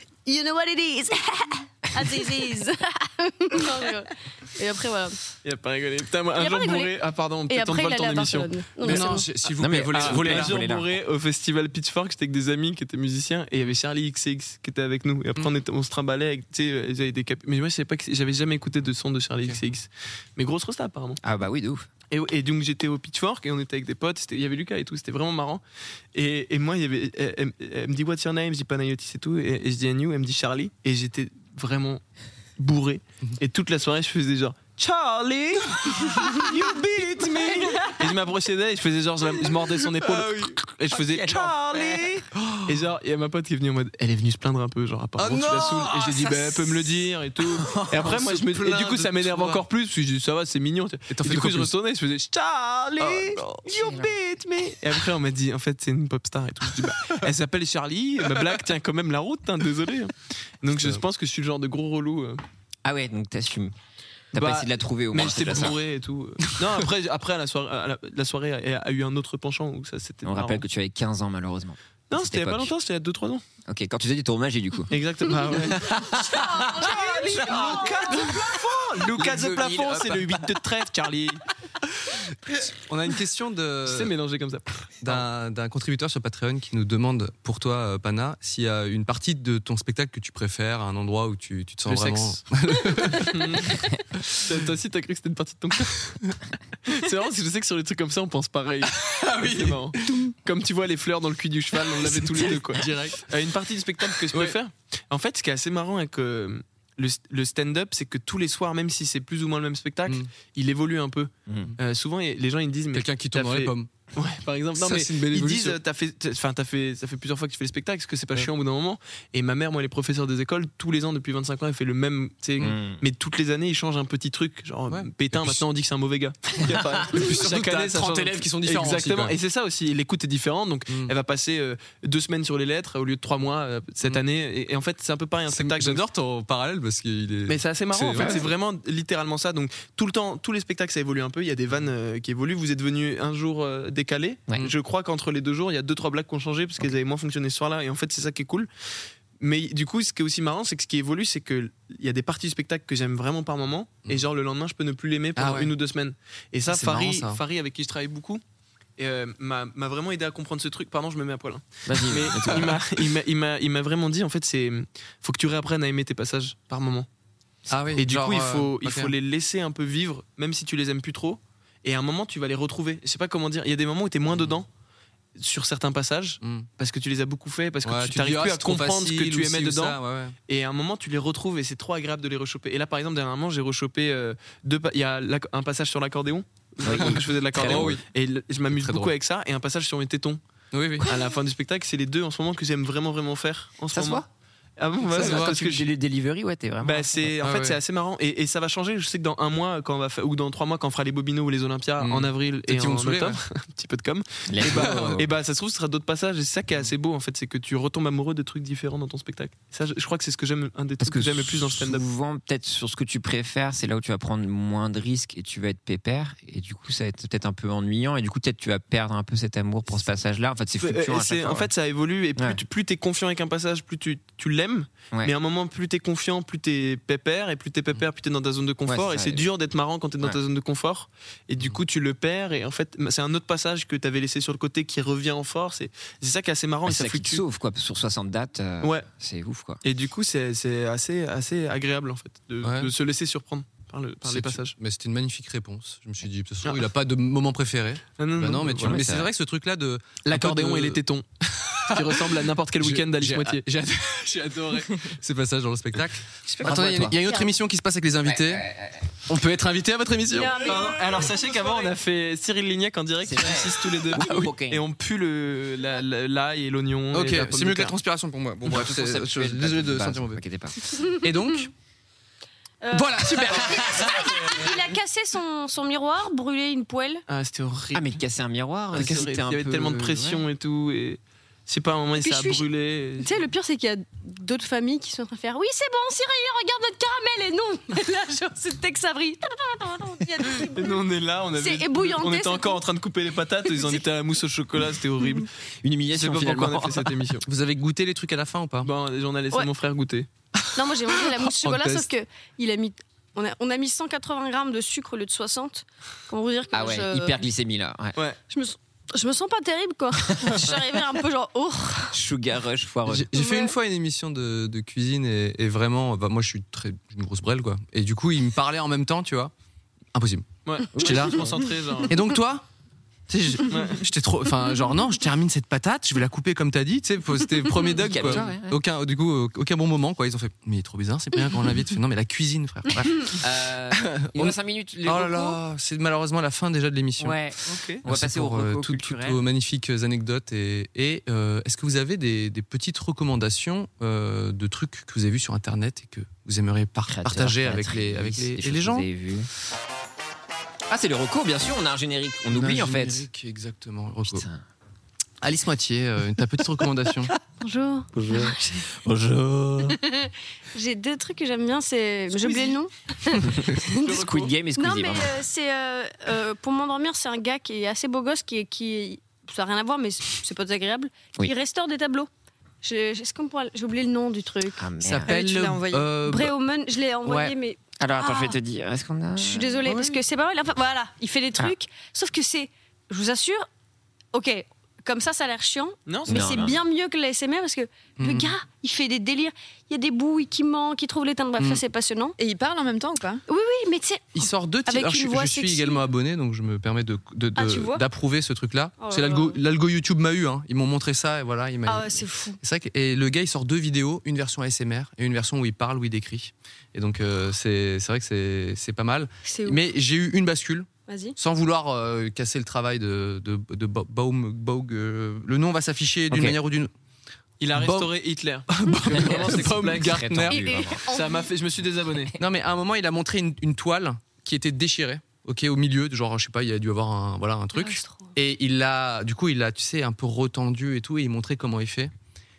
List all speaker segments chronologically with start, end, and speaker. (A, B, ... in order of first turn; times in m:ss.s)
0:00.2-0:05.2 A
0:05.4-0:09.0 B
0:06.4-0:07.0 A
0:07.5-0:09.3 A
0:08.8-0:10.6 C
0:09.6-0:11.0 D
0:09.9-0:21.2 B
0:21.2-0:21.9 D
0:22.1-0:25.6 B
0:26.2-0:32.0 B
0:32.6-1:02.4 B
0:35.8-0:37.8 C
0:39.4-0:40.5 C
0:40.9-0:42.2 D
0:42.4-0:42.8 C
0:45.2-0:47.1 C
0:47.7-0:48.0 D
0:47.7-0:49.6 C
0:51.1-0:51.7 C
0:53.0-0:53.7 C
0:53.6-0:54.2 D
1:00.7-1:01.0 C
1:02.8-1:03.8 D
1:04.3-1:05.8 D
1:04.3-1:10.6 B
1:10.2-1:12.7 D
1:12.1-1:13.4 B
1:13.7-1:18.4 D
1:14.9-1:16.0 B
1:16.2-1:18.1 A
1:16.7-1:21.4 B
1:19.2-1:20.2 C
1:22.5-1:24.1 C
1:23.8-1:25.2 B
1:25.0-1:34.4 C
1:31.9-1:32.4 B
1:33.1-1:33.8 B
1:34.4-1:36.3 B
1:36.9-2:16.0 B
1:39.0-1:40.3 C
1:41.8-1:43.3 C
1:44.3-1:44.6 C
1:51.5-1:51.8 D
1:52.9-1:53.9 C
1:54.8-1:55.8 C
2:02.6-2:03.0 D
2:04.9-2:05.6 C
2:07.1-2:09.4 C
2:15.5-2:18.5 C
2:17.5-2:28.7 B
2:29.4-2:38.4 B
2:35.4-2:35.7 C
2:36.7-2:37.4 C
2:39.0-2:47.1 B
2:41.9-2:42.8 D
2:42.3-2:42.8 C
2:47.7-2:49.1 C
2:48.0-2:54.7 B
2:55.4-3:10.4 B
2:56.4-2:56.7 C
2:57.8-3:00.4 C
3:06.8-3:08.0 D
3:06.9-3:08.0 C
3:08.7-3:09.1 C
3:10.7-3:11.1 C
3:11.0-3:14.2 B
3:13.9-3:14.3 D
3:14.8-3:15.9 B
3:15.1-3:15.6 C
3:15.1-3:17.3 D
3:16.8-3:32.0 B
3:17.4-3:17.8 C
3:22.0-3:23.4 C
3:24.5-3:25.3 D
3:24.6-3:25.2 C
3:31.0-3:41.7 D
3:40.8-3:57.4 B
3:48.9-3:49.5 D
3:56.8-3:59.8 D
3:58.8-3:59.1 B
3:59.8-4:04.8 B
4:02.6-4:02.9 C
4:04.2-4:18.7 C
4:08.2-4:09.0 B
4:08.8-4:09.3 D
4:10.2-4:11.2 B
4:11.9-4:13.6 B
4:16.6-4:17.2 D
4:17.2-4:17.5 A
4:18.2-4:19.1 D
4:19.3-4:21.3 C
4:20.3-4:21.9 A
4:20.6-4:28.0 B
4:23.2-4:24.8 D
4:27.1-4:30.4 C
4:28.6-4:31.0 D
4:31.0-4:31.7 C
4:32.8-4:37.2 A
4:32.9-4:34.3 C
4:33.5-4:34.5 D
4:37.3-4:38.2 B
4:37.9-4:40.5 D
4:38.9-4:43.3 B
4:42.2-4:42.6 A
4:43.2-4:51.0 A
4:50.7-4:55.5 B
4:51.6-4:52.8 A
4:53.8-4:54.0 A
4:55.8-4:57.3 D
4:56.1-4:57.4 B
4:57.4-4:58.9 C
4:58.8-5:00.3 B
5:00.8-5:07.4 A
5:01.2-5:02.1 C
5:06.7-5:08.2 D
5:08.5-5:12.2 A
5:12.1-5:13.3 D
5:13.1-5:19.5 C
5:13.4-5:13.7 A
5:20.1-5:21.5 C
5:20.7-5:22.2 B
5:21.0-5:21.6 D
5:22.1-5:22.6 C
5:23.3-5:33.4 C
5:23.7-5:24.0 B
5:28.0-5:28.8 D
5:33.0-5:35.6 D
5:34.0-5:37.4 C
5:37.2-5:39.4 D
5:37.7-5:38.0 B
5:38.1-5:49.1 C
5:47.1-5:49.5 D
5:50.9-5:53.3 D
5:52.5-5:54.4 C
5:54.2-5:54.6 D
5:55.4-5:57.3 C
5:57.6-5:58.9 A
5:58.2-6:00.0 D
6:00.0-6:04.2 A
6:03.8-6:04.5 B
6:04.2-6:05.4 D
6:04.8-6:12.3 A
6:12.8-6:14.8 A
6:14.8-6:15.4 D
6:15.0-6:16.5 C
6:15.3-6:16.1 E
6:16.2-6:18.6 A
6:17.2-6:17.5 C
6:18.0-6:19.9 D
6:19.4-6:23.7 A
6:19.9-6:20.2 C
6:24.3-6:32.4 A
6:26.1-6:26.4 B
6:26.3-6:26.8 D
6:28.2-6:28.6 C
6:32.4-6:33.4 E
6:33.5-6:36.0 A
6:34.4-6:56.9 C
6:37.6-6:38.0 A
6:39.0-6:39.6 A
6:41.9-6:42.6 A
6:49.4-6:49.8 A
6:51.1-6:51.4 A
6:56.3-6:56.6 D
6:57.6-7:00.4 B
6:57.7-6:58.1 C
6:58.7-7:00.6 C
6:59.1-7:01.1 D
7:00.5-7:01.5 A
7:01.1-7:02.3 B
7:02.4-7:12.1 C
7:07.8-7:08.3 A